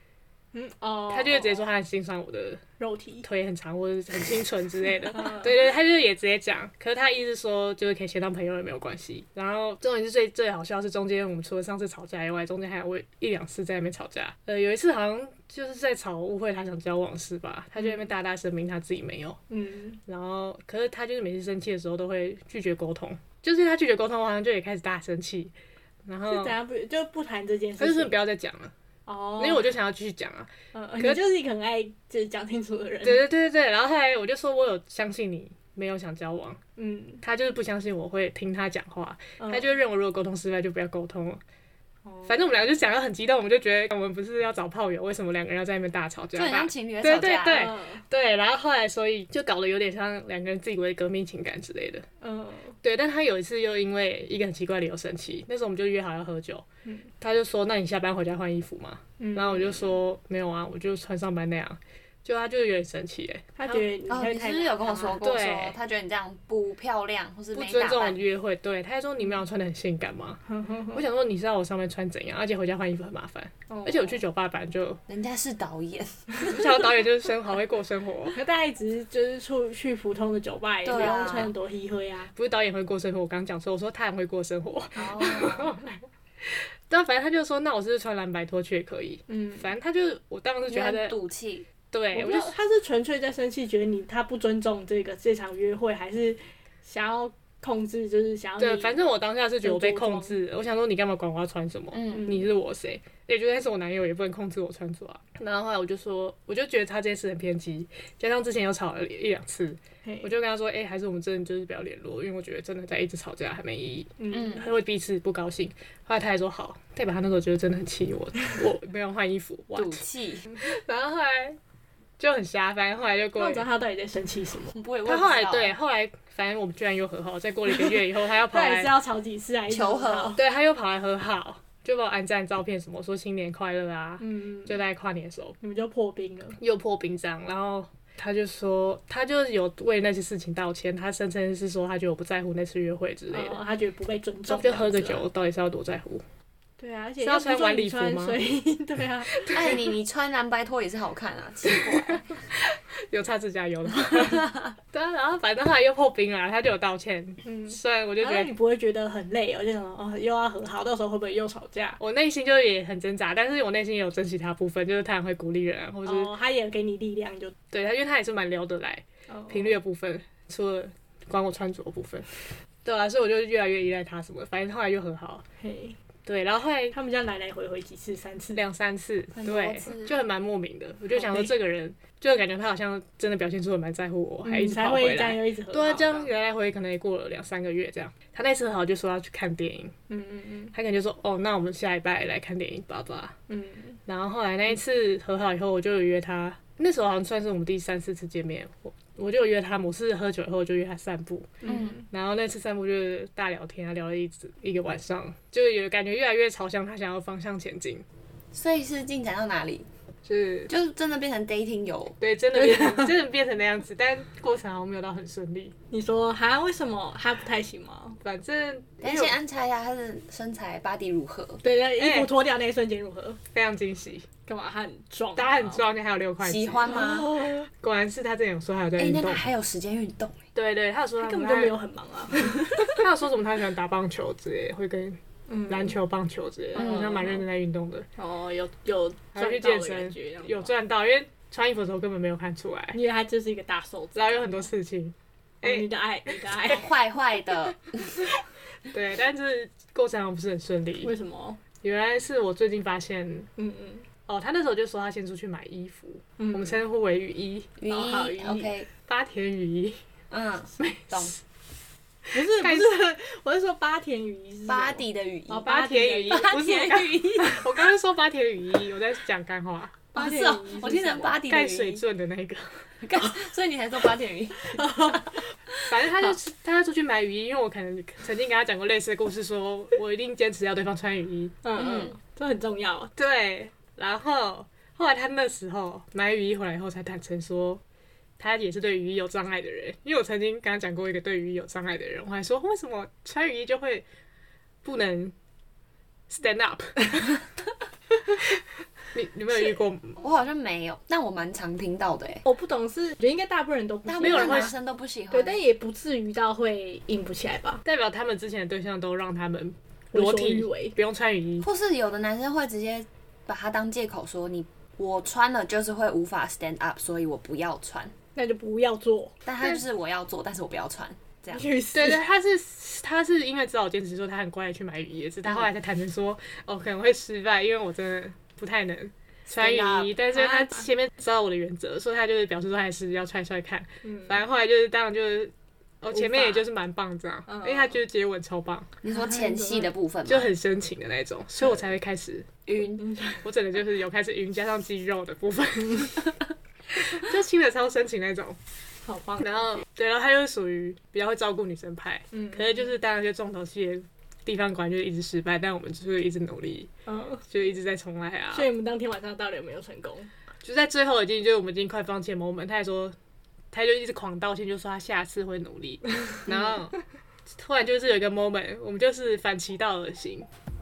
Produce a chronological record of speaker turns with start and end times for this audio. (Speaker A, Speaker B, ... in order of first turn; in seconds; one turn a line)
Speaker A: 0.5-1.7
Speaker B: 1.1-2.6
Speaker A: 2.8-3.3
Speaker B: 3.2-19.4
Speaker A: 5.1-5.5
Speaker A: 17.8-18.1
Speaker A: 19.5-20.0
Speaker B: 20.1-25.5
Speaker B: 26.1-26.6
Speaker A: 26.3-28.2
Speaker B: 27.8-28.7
Speaker A: 29.1-29.7
Speaker B: 29.4-31.2
Speaker A: 30.7-33.2
Speaker B: 33.0-36.6
Speaker A: 36.8-37.2
Speaker B: 37.2-41.4
Speaker A: 39.4-39.7
Speaker A: 42.0-42.5
Speaker B: 42.2-52.0
Speaker C: 46.3-47.7
Speaker A: 47.5-48.0
Speaker A: 52.2-52.8
Speaker B: 52.8-56.6
Speaker A: 56.8-57.1
Speaker B: 57.2-63.9
Speaker A: 59.2-59.9
Speaker A: 63.5-65.2
Speaker C: 64.1-68.2
Speaker B: 65.2-65.8
Speaker B: 67.5-70.4
Speaker A: 70.5-71.0
Speaker B: 70.9-75.0
Speaker A: 73.7-74.2
Speaker C: 75.1-76.3
Speaker B: 76.4-78.4
Speaker A: 78.3-82.3
Speaker C: 80.8-81.5
Speaker B: 80.9-81.2
Speaker B: 82.3-85.9
Speaker C: 85.0-85.8
Speaker B: 86.9-91.2
Speaker A: 89.3-89.7
Speaker C: 90.7-91.7
Speaker B: 91.9-92.5
Speaker A: 92.1-99.0
Speaker B: 98.6-120.0
Speaker A: 99.6-100.4
Speaker C: 101.9-102.3
Speaker A: 102.1-102.5
Speaker A: 110.0-110.3
Speaker A: 114.2-114.7
Speaker C: 119.7-120.6
Speaker B: 120.6-121.6
Speaker B: 122.2-123.7
Speaker A: 123.3-124.8
Speaker C: 124.7-125.7
Speaker B: 125.0-128.9
Speaker A: 127.7-130.4
Speaker C: 129.7-130.3
Speaker B: 130.3-135.6
Speaker A: 134.2-134.8
Speaker A: 135.6-136.6
Speaker B: 136.6-143.6
Speaker A: 143.3-145.3
Speaker B: 144.5-146.2
Speaker A: 146.8-149.8
Speaker B: 147.2-148.4
Speaker C: 149.4-152.4
Speaker B: 149.5-149.8
Speaker B: 152.5-158.5
Speaker A: 157.4-162.0
Speaker B: 162.0-166.3
Speaker A: 166.0-167.5
Speaker B: 167.7-175.4
Speaker A: 169.3-169.8
Speaker A: 175.6-175.9
Speaker B: 176.2-176.9
Speaker A: 176.9-178.6
Speaker B: 178.5-189.9
Speaker C: 179.3-180.2
Speaker A: 181.1-181.5
Speaker A: 184.4-186.3
Speaker A: 190.1-190.7
Speaker B: 190.7-193.3
Speaker A: 193.5-194.0
Speaker B: 194.1-201.6
Speaker A: 201.6-202.0
Speaker C: 201.6-202.0
Speaker B: 202.1-208.0
Speaker C: 208.5-209.9
Speaker B: 210.2-210.7
Speaker C: 210.7-212.2
Speaker B: 212.2-215.7
Speaker A: 212.7-213.1
Speaker A: 215.9-218.2
Speaker B: 218.2-219.3
Speaker C: 219.0-221.6
Speaker A: 221.6-223.4
Speaker B: 222.0-222.3
Speaker B: 223.5-224.3
Speaker A: 224.5-225.8
Speaker B: 225.3-227.1
Speaker C: 226.4-227.5
Speaker A: 226.8-227.7
Speaker B: 227.7-229.4
Speaker C: 229.0-230.4
Speaker B: 230.5-231.7
Speaker A: 231.2-232.9
Speaker B: 232.5-238.1
Speaker A: 235.5-235.9
Speaker A: 236.7-237.4
Speaker C: 236.8-237.3
Speaker A: 238.2-240.7
Speaker B: 239.3-243.0
Speaker A: 242.9-244.7
Speaker B: 244.1-246.3
Speaker A: 245.6-246.9
Speaker C: 246.6-248.1
Speaker B: 248.9-251.1
Speaker A: 251.0-251.6
Speaker B: 251.8-253.5
Speaker A: 253.6-254.1
Speaker B: 254.2-257.8
Speaker A: 256.4-256.8
Speaker C: 257.8-258.9
Speaker A: 257.9-258.8
Speaker B: 259.1-260.0
Speaker C: 260.3-261.4
Speaker B: 260.8-261.3
Speaker A: 262.3-266.7
Speaker B: 262.3-263.0
Speaker C: 264.7-265.7
Speaker B: 265.6-270.1
Speaker C: 266.3-267.7
Speaker A: 270.1-271.5
Speaker C: 270.1-272.0
Speaker B: 271.4-272.9
Speaker C: 273.0-275.4
Speaker A: 274.8-275.4
Speaker B: 275.9-281.6
Speaker A: 281.6-283.1
Speaker C: 281.8-282.1
Speaker B: 283.1-287.8
Speaker B: 288.4-294.0
Speaker B: 294.8-295.3
Speaker B: 296.3-297.4
Speaker B: 299.1-300.2
Speaker C: 300.2-302.4
Speaker A: 302.4-304.7
Speaker C: 304.1-305.6
Speaker B: 304.1-304.7
Speaker A: 305.3-307.8
Speaker B: 307.8-311.6
Speaker A: 310.1-310.9
Speaker C: 311.6-318.1
Speaker A: 318.3-319.4
Speaker C: 319.4-321.7
Speaker A: 321.5-322.2
Speaker B: 321.9-338.9
Speaker C: 329.5-330.1
Speaker A: 330.3-330.9
Speaker A: 334.0-334.4
Speaker A: 336.1-336.6
Speaker A: 337.5-338.0
Speaker C: 339.0-340.5
Speaker A: 339.3-339.9
Speaker B: 340.3-342.7
Speaker C: 342.7-343.2
Speaker A: 343.0-343.5
Speaker B: 343.4-346.4
Speaker B: 346.9-348.6
Speaker A: 349.0-349.8
Speaker B: 349.4-356.9
Speaker A: 352.3-352.9
Speaker A: 357.1-357.4
Speaker B: 357.5-358.7
Speaker A: 358.5-360.3
Speaker B: 360.6-363.1
Speaker B: 363.7-366.9
Speaker B: 367.5-370.5